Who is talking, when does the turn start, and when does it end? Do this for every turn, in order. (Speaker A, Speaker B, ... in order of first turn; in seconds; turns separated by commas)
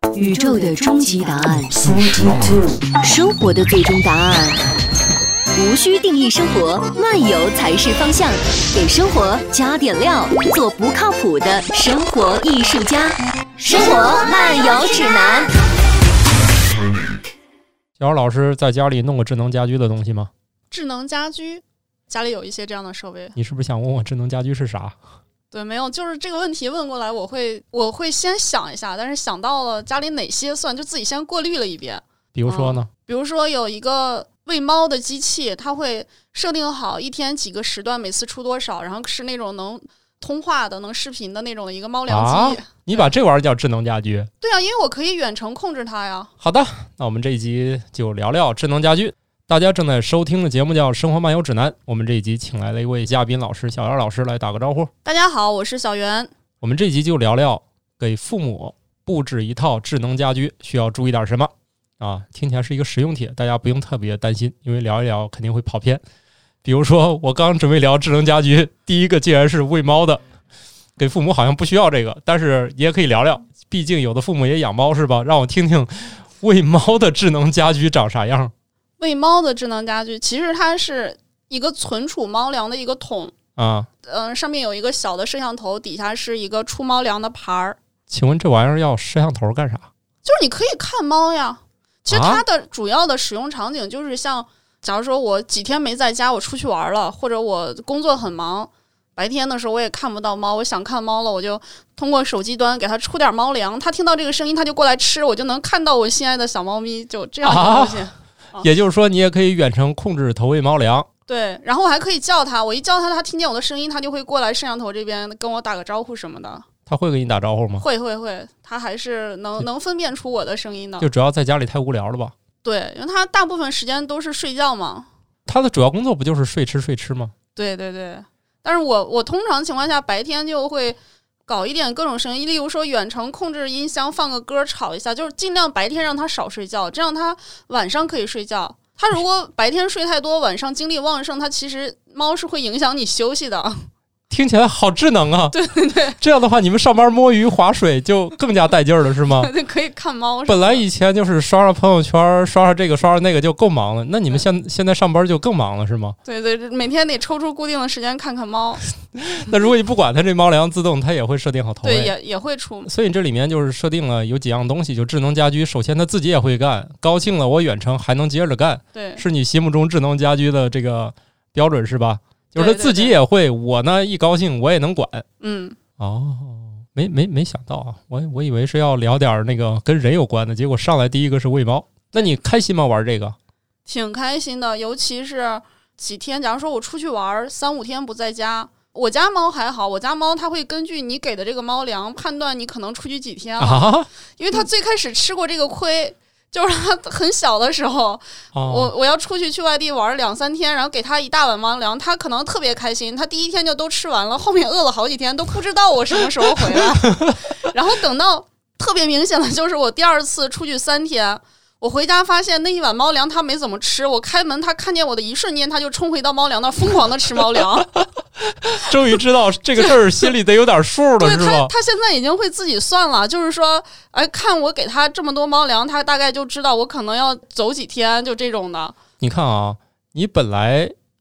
Speaker A: 0.1-2.5, Speaker A: 3.0-4.6, Speaker A: 5.5-15.5, Speaker B: 18.0-20.3, Speaker C: 20.7-23.4, Speaker B: 23.4-25.0, Speaker C: 25.5-43.1, Speaker B: 32.3-32.9, Speaker B: 42.1-44.3, Speaker C: 44.4-46.3, Speaker B: 46.4-54.9, Speaker C: 55.0-56.3, Speaker B: 56.6-66.0, Speaker B: 66.6-70.2, Speaker B: 71.0-78.5, Speaker C: 79.0-83.3, Speaker B: 83.6-83.9, Speaker C: 84.0-87.8, Speaker B: 88.1-89.9, Speaker C: 90.2-108.7, Speaker B: 92.1-92.4, Speaker B: 107.4-108.1, Speaker B: 108.6-111.1, Speaker C: 111.3-116.6, Speaker B: 116.9-117.8, Speaker C: 117.8-121.1, Speaker B: 121.0-122.3, Speaker C: 122.6-125.1, Speaker B: 125.5-127.3, Speaker C: 127.5-143.9, Speaker B: 144.3-145.6, Speaker C: 145.5-146.2, Speaker B: 146.2-149.5, Speaker C: 149.3-150.8, Speaker B: 150.5-156.2, Speaker C: 156.2-158.8, Speaker B: 159.1-162.1, Speaker C: 161.8-162.9, Speaker B: 162.9-175.3, Speaker C: 168.9-169.2, Speaker C: 172.6-173.2, Speaker C: 175.4-175.8, Speaker B: 176.0-183.4, Speaker C: 183.9-217.9, Speaker B: 193.6-194.6, Speaker B: 198.6-198.9, Speaker B: 206.5-207.4, Speaker B: 217.9-221.7, Speaker C: 221.2-229.0, Speaker B: 229.2-230.9